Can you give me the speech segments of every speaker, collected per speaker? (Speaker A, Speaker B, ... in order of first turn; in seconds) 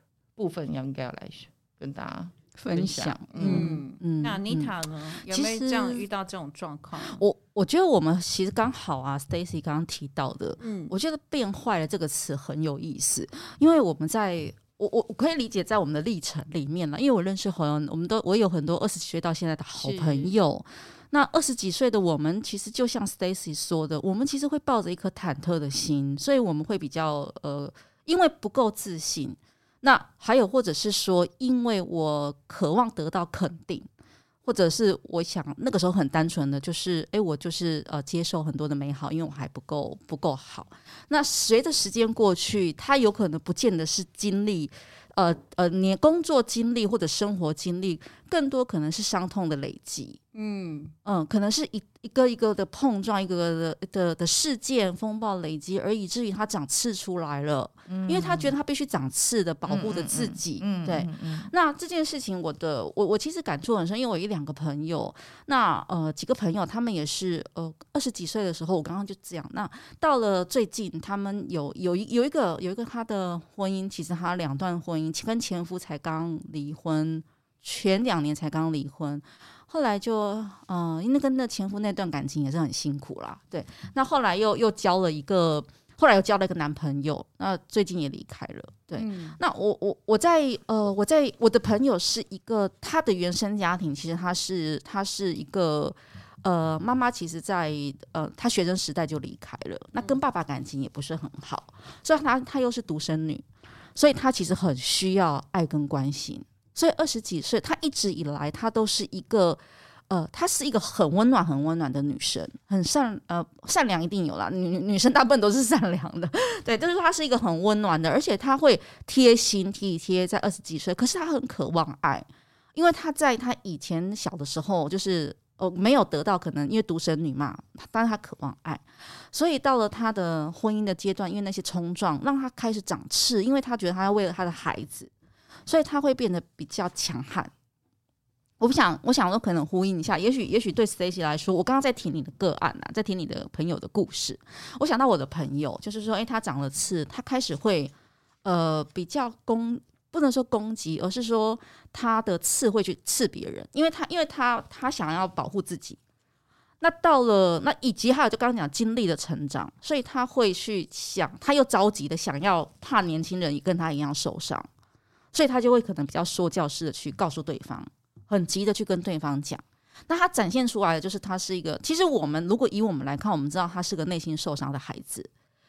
Speaker A: 0.4-3.8, 57.9-58.5, 59.7-61.5
Speaker B: 2.6-6.0, 7.0-33.9, 34.5-50.2, 51.0-103.5, 104.0-135.1, 135.7-137.5, 138.6-147.9, 148.4-156.0, 156.8-164.7, 165.3-175.3
Speaker C: 3.4-7.2, 10.6-10.9, 19.8-20.3, 50.3-50.9, 89.0-89.4